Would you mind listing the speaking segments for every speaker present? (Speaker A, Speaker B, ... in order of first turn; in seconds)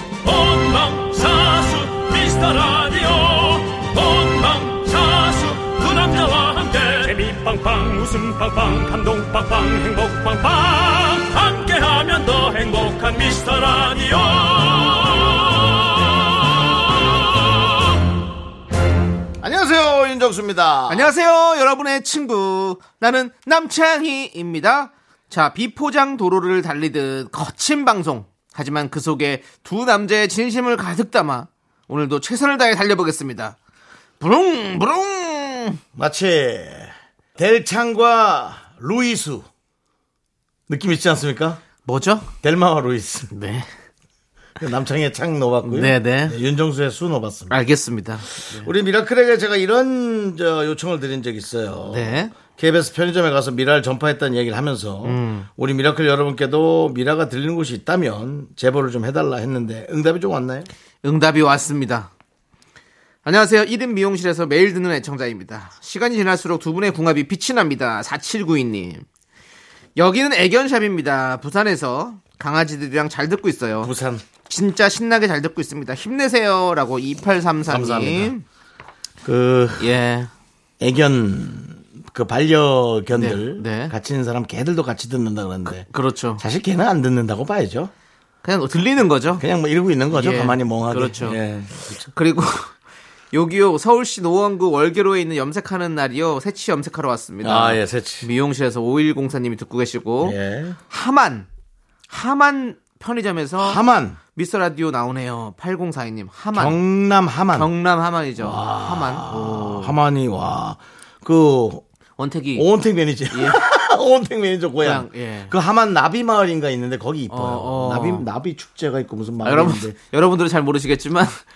Speaker A: 0.2-17.5
Speaker B: 19.4-21.1, 35.9-39.5, 40.7-41.6, 42.4-43.3, 44.6-47.5, 48.4-60.7, 73.8-74.2, 77.7-78.3, 79.2-79.9, 80.8-85.8, 86.4-87.9, 89.3-92.1, 97.4-98.3, 100.2-100.8, 103.6-104.2, 106.5-107.7, 108.4-111.8, 112.5-120.0
Speaker C: 20.9-33.6, 34.2-35.8, 41.8-42.3, 43.3-43.7, 45.6-46.4, 47.5-48.7, 51.9-52.3, 55.0-55.5, 61.0-62.1, 63.2-69.0, 70.0-73.9, 74.5-78.4, 79.8-80.3, 83.1-83.9, 85.7-86.4, 88.4-89.4, 90.1-91.4, 92.1-92.7, 93.3-100.3, 100.9-101.5, 102.1-103.8, 104.3-106.8, 107.5-110.0, 112.2-112.7, 113.3-113.6, 114.8-115.5, 117.3-118.2, 119.4-121.4